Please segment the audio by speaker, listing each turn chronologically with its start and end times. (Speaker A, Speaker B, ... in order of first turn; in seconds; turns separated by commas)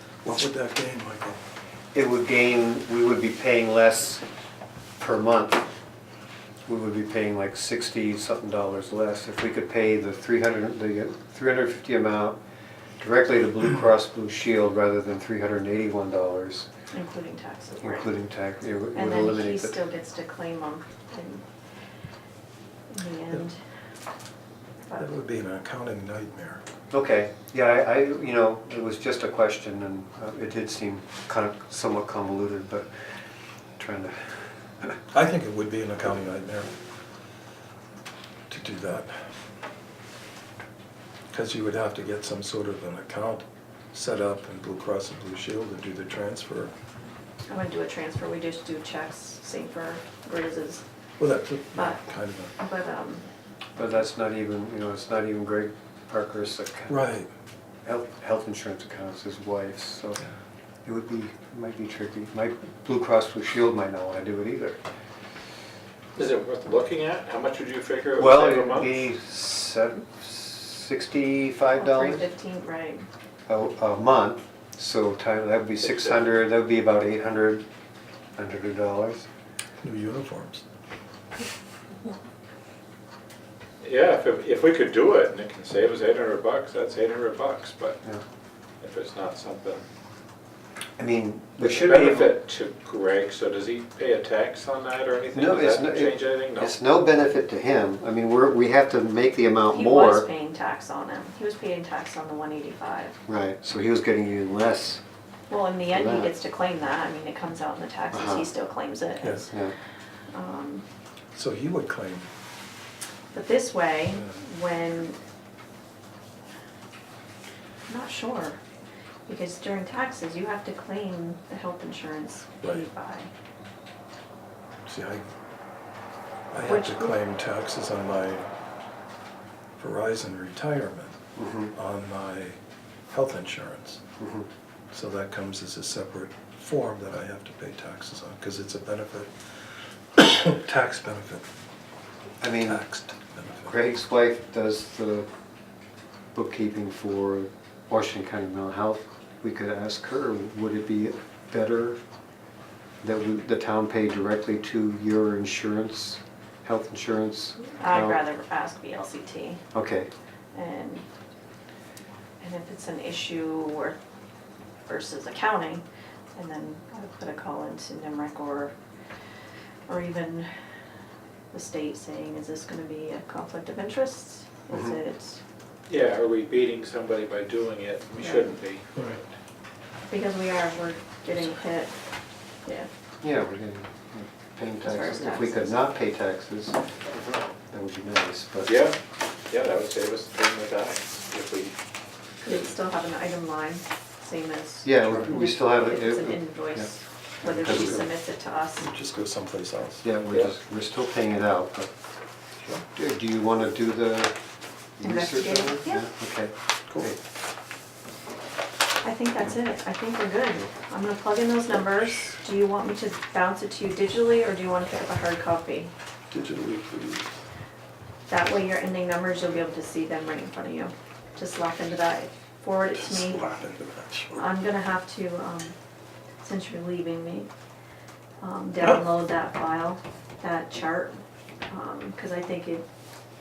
Speaker A: 0.2-1.4, Speaker B: 1.9-4.2, Speaker B: 5.0-5.6, Speaker B: 6.7-12.4, Speaker B: 13.0-16.7, Speaker C: 16.9-18.1, Speaker B: 17.8-19.8, Speaker C: 18.9-21.4, Speaker C: 22.9-23.6, Speaker A: 25.0-26.6, Speaker B: 26.9-32.9, Speaker B: 33.8-35.0, Speaker A: 35.1-36.7, Speaker A: 38.5-39.1, Speaker A: 41.3-46.7, Speaker C: 47.5-50.8, Speaker A: 51.2-52.5, Speaker C: 51.7-52.0, Speaker C: 52.6-53.2, Speaker B: 53.8-57.0, Speaker A: 56.9-57.3, Speaker B: 57.8-60.2, Speaker B: 60.8-64.8, Speaker D: 66.2-69.0, Speaker B: 68.2-72.3, Speaker C: 71.7-73.1, Speaker B: 73.5-77.7, Speaker D: 75.8-76.2, Speaker B: 78.3-79.3, Speaker A: 79.8-80.6, Speaker D: 83.8-88.0, Speaker D: 88.8-89.8, Speaker B: 91.0-92.3, Speaker D: 91.6-96.8, Speaker B: 95.3-100.3, Speaker C: 99.7-103.2, Speaker B: 103.3-105.0, Speaker C: 105.5-109.5, Speaker B: 105.9-106.3, Speaker B: 108.1-108.5, Speaker B: 109.5-109.7, Speaker C: 110.3-110.8, Speaker A: 111.3-112.3, Speaker C: 113.3-115.2, Speaker C: 117.9-118.6, Speaker C: 119.3-123.3, Speaker A: 124.8-125.2, Speaker A: 126.5-128.5, Speaker C: 126.7-127.2, Speaker A: 129.8-131.2, Speaker B: 131.3-131.7, Speaker A: 131.7-132.6, Speaker A: 133.1-134.0, Speaker B: 134.2-134.5, Speaker A: 134.9-141.4, Speaker B: 142.4-142.8, Speaker A: 142.6-143.7, Speaker B: 143.7-145.3, Speaker B: 146.3-152.0, Speaker B: 153.0-158.2, Speaker C: 157.8-159.6, Speaker B: 159.7-160.1, Speaker C: 160.5-161.1, Speaker C: 162.4-164.0, Speaker C: 164.9-165.8, Speaker C: 166.3-168.7, Speaker C: 169.9-170.5, Speaker C: 171.5-175.4, Speaker B: 174.7-175.0, Speaker D: 175.9-179.3, Speaker C: 178.2-178.5, Speaker C: 180.1-181.9, Speaker B: 183.2-186.8, Speaker C: 184.8-185.8, Speaker D: 187.1-187.4, Speaker B: 187.7-188.8, Speaker D: 188.6-189.0, Speaker D: 189.5-191.8, Speaker C: 192.4-198.9, Speaker B: 194.8-196.9, Speaker B: 197.4-198.0, Speaker A: 197.6-198.0, Speaker A: 198.8-200.0, Speaker B: 200.0-201.9, Speaker B: 202.9-204.3, Speaker B: 205.0-207.2, Speaker C: 205.0-206.1, Speaker C: 209.0-215.9, Speaker A: 216.3-217.3, Speaker C: 218.3-223.4, Speaker A: 222.9-224.5, Speaker C: 224.3-225.7, Speaker C: 226.4-227.5, Speaker C: 228.4-232.8